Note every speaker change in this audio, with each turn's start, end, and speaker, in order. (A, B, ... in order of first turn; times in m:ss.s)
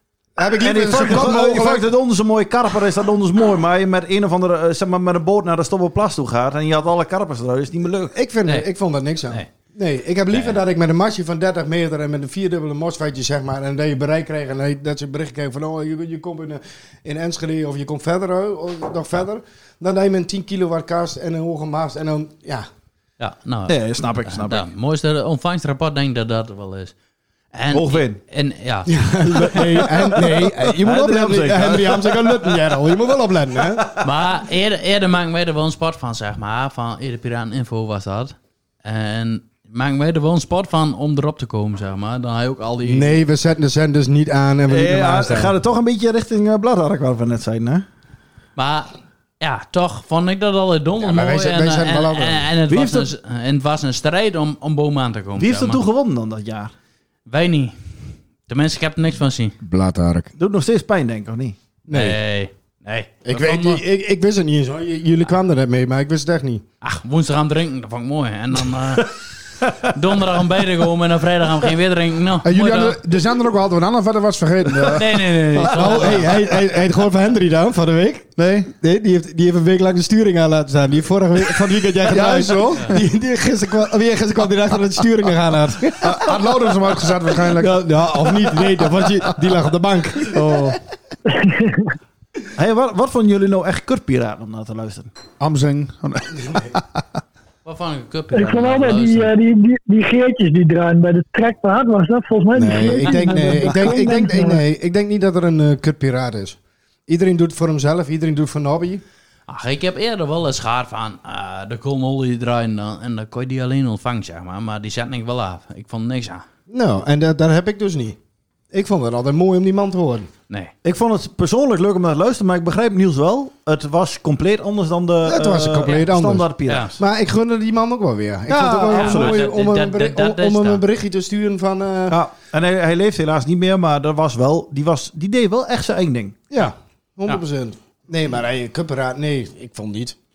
0:00.4-0:01.9 A
0:00.6-0:08.1 B
0:08.1-0:22.7 A
0:23.2-0:26.9 C
0:23.7-0:24.7 B
0:27.5-0:28.9 C
0:27.7-0:28.2 B
0:28.9-0:33.9 A
0:29.4-0:32.7 B
0:34.0-0:43.2 C
0:42.8-0:45.5 A
0:44.7-0:47.9 B
0:48.6-0:55.8 C
0:51.0-0:52.5 A
0:52.7-0:53.1 B
0:55.4-0:56.7 B
0:57.3-0:57.8 C
0:58.5-0:59.6 C
0:59.6-1:00.3 A
1:00.4-1:01.6 B
1:01.9-1:02.2 A
1:01.9-1:03.8 C
1:03.2-1:06.6 A
1:06.8-1:09.1 C
1:09.9-1:13.0 C
1:12.4-1:16.3 D
1:14.8-1:16.3 C
1:15.6-1:26.6 A
1:18.4-1:18.7 D
1:22.1-1:23.0 D
1:26.0-1:28.8 D
1:27.4-1:30.6 A
1:30.3-1:30.8 D
1:31.3-1:31.9 E
1:32.6-1:35.1 B
1:35.4-1:36.8 D
1:36.4-1:36.7 A
1:37.6-1:39.3 C
1:38.3-1:44.6 E
1:42.6-1:49.0 A
1:49.5-1:56.4 C
1:56.7-1:58.2 A
1:58.7-2:00.3 A
2:00.8-2:07.0 B
2:05.2-2:12.2 A
2:06.7-2:07.0 C
2:08.5-2:09.5 B
2:08.9-2:10.8 C
2:12.1-2:16.4 B
2:16.5-2:20.2 A